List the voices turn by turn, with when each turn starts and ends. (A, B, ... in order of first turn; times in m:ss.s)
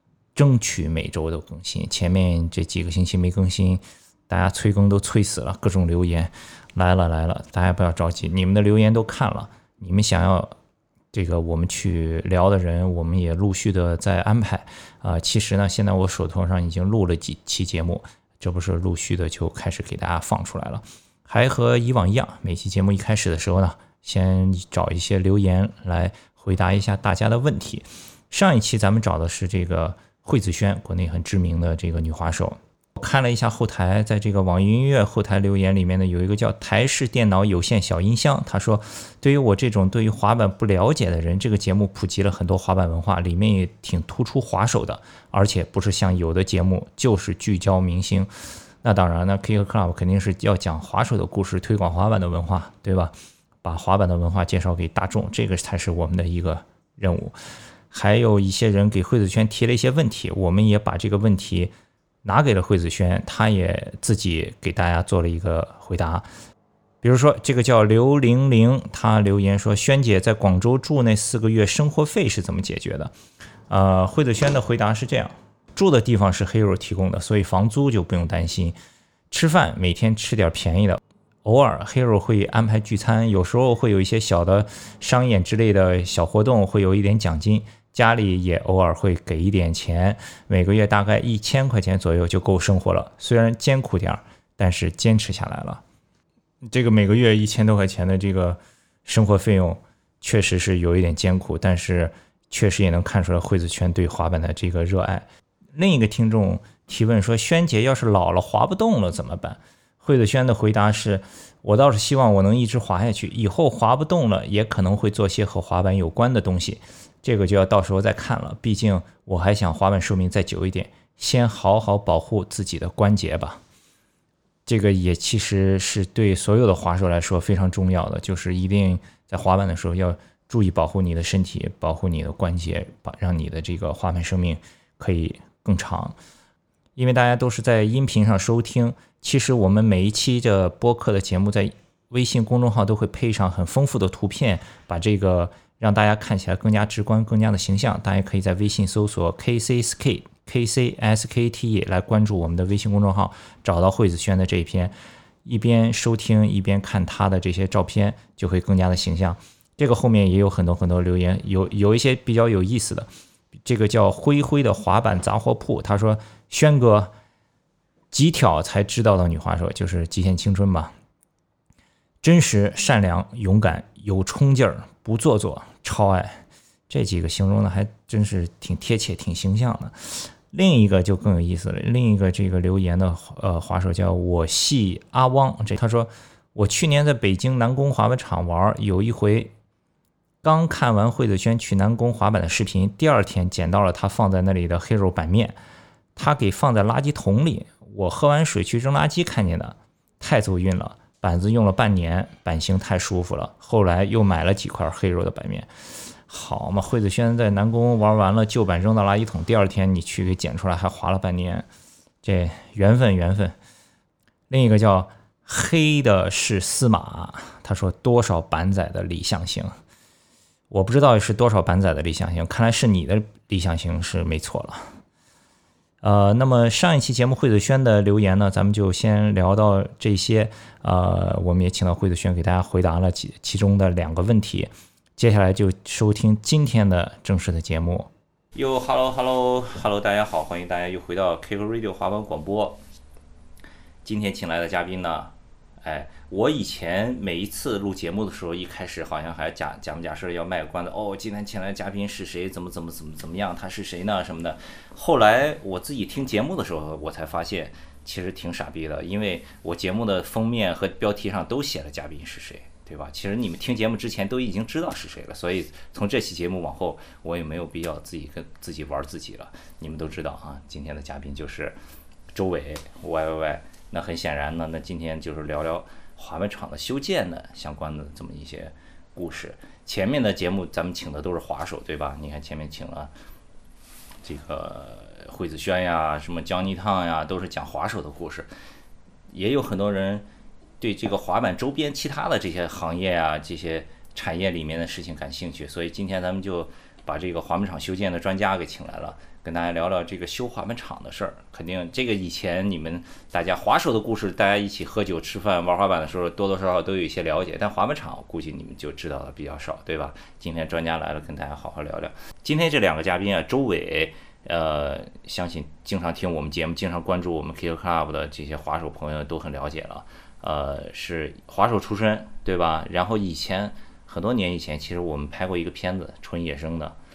0:00.3-0:10.5 A
0:11.1-0:48.3 A
0:48.8-0:57.4 A
0:57.9-1:01.7 A
1:02.2-1:06.2 A
1:07.0-1:13.1 A
1:13.7-1:18.8 A
1:19.3-1:35.8 A
1:36.6-2:03.6 A
2:04.6-2:16.1 A
2:17.0-2:43.1 A
2:43.6-2:47.1 A
2:48.1-2:50.9 A
2:52.2-3:09.5 A
3:10.4-3:15.6 A
3:16.2-3:31.7 A
3:32.2-3:33.6 A
3:34.5-3:39.8 A
3:40.7-3:44.9 A
3:46.0-4:02.8 A
4:04.0-4:31.8 A
4:32.3-4:43.1 A
4:44.2-4:48.5 A
4:49.3-4:50.2 A
4:50.8-5:26.9 A